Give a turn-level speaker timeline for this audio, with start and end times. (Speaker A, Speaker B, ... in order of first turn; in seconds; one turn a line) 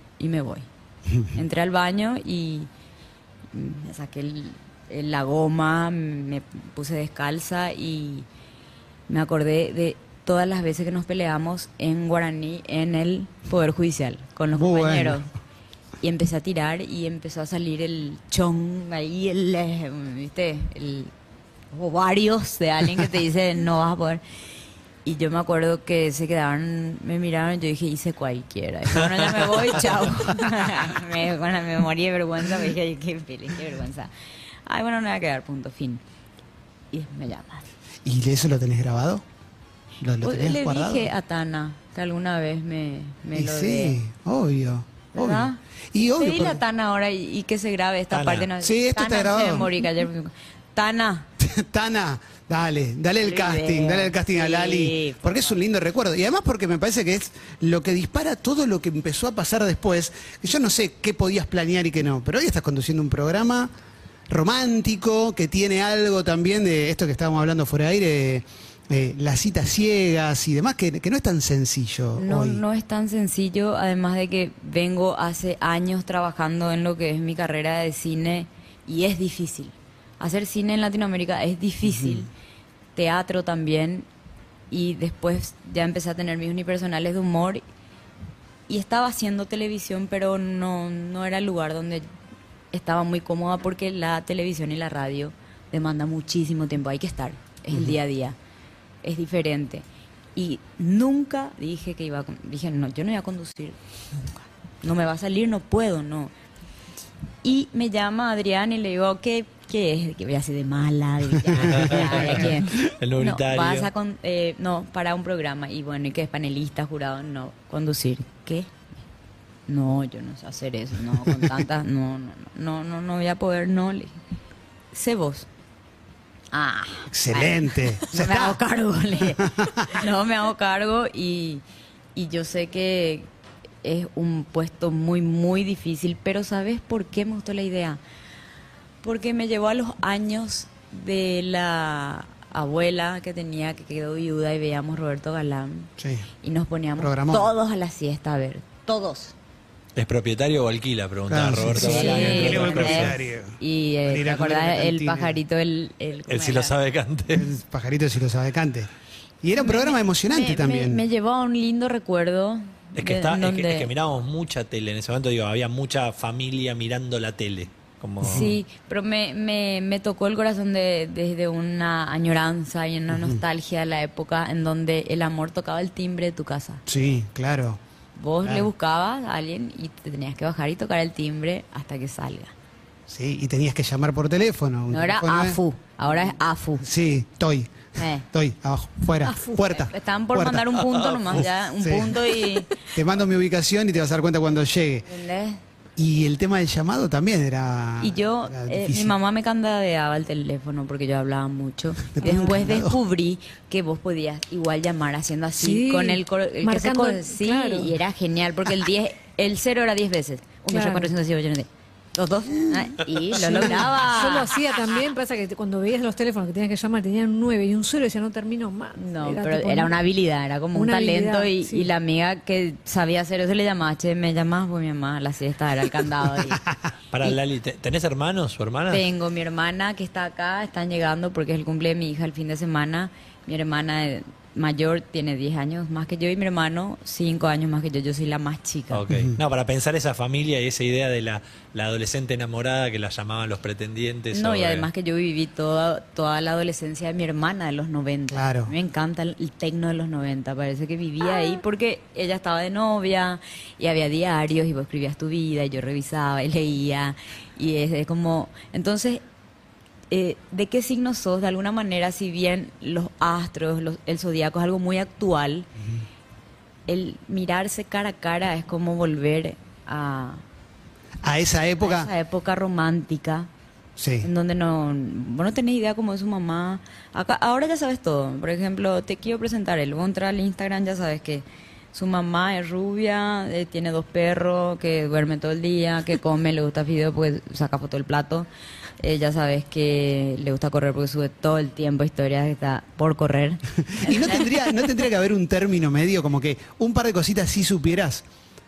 Speaker A: 0.2-0.7
Speaker A: 1.3-2.7
Speaker A: 3.5-8.3
Speaker A: 9.1-15.3
Speaker B: 14.5-15.2
Speaker A: 16.0-21.1
Speaker A: 21.7-24.2
Speaker A: 25.1-34.1
Speaker A: 34.7-36.0
Speaker A: 36.9-37.7
Speaker B: 38.0-39.2
Speaker B: 40.0-41.1
Speaker A: 40.2-44.0
Speaker B: 43.4-46.6
Speaker A: 45.1-51.3
Speaker C: 48.1-48.5
Speaker B: 48.6-49.8
Speaker B: 51.4-63.7
Speaker A: 53.2-55.5
Speaker B: 64.3-72.6
Speaker A: 72.2-82.3
Speaker B: 81.9-82.3
Speaker A: 83.0-84.1
Speaker A: 84.7-87.6
Speaker A: 88.7-92.1
Speaker A: 92.7-98.4
Speaker A: 99.0-103.8
Speaker A: 104.4-106.3
Speaker A: 107.4-118.7
Speaker C: 111.6-113.9
Speaker A: 119.7-124.2
Speaker A: 124.9-125.5
Speaker A: 126.5-131.6
Speaker B: 127.1-128.6
Speaker B: 129.4-130.0
Speaker A: 132.2-133.3
Speaker A: 133.8-138.0
Speaker A: 139.0-145.9
Speaker B: 146.0-146.3
Speaker A: 146.4-149.3
Speaker B: 147.0-147.5
Speaker C: 150.0-153.2
Speaker B: 151.3-155.4
Speaker A: 151.8-156.8
Speaker C: 156.3-157.5
Speaker B: 157.3-158.9
Speaker B: 159.4-161.0
Speaker A: 159.6-163.9
Speaker C: 163.0-168.5
Speaker A: 168.2-176.8
Speaker B: 168.2-168.5
Speaker B: 173.1-173.4
Speaker B: 176.9-177.8
Speaker A: 178.2-182.5
Speaker B: 178.4-178.7
Speaker B: 183.1-185.6
Speaker A: 184.9-186.8
Speaker B: 186.8-190.8
Speaker A: 188.0-188.3
Speaker D: 189.2-189.7
Speaker A: 189.6-192.8
Speaker B: 191.8-195.1
Speaker A: 195.1-195.6
Speaker B: 196.0-199.2
Speaker A: 198.0-214.6
Speaker B: 202.1-203.0
Speaker D: 205.6-208.0
Speaker D: 210.7-211.1
Speaker D: 213.3-220.0
Speaker B: 213.4-213.8
Speaker A: 219.0-226.7
Speaker D: 220.8-221.9
Speaker B: 226.4-226.8
Speaker C: 227.1-229.1
Speaker A: 228.9-239.0
Speaker C: 238.9-244.9
Speaker B: 239.1-239.4
Speaker A: 244.3-259.2
Speaker B: 248.3-248.7
Speaker A: 260.1-265.7
Speaker A: 266.9-270.4
Speaker B: 271.2-272.1
Speaker A: 271.8-273.5
Speaker B: 274.0-274.3
Speaker A: 274.2-288.5
Speaker A: 289.0-294.6
Speaker B: 293.8-298.2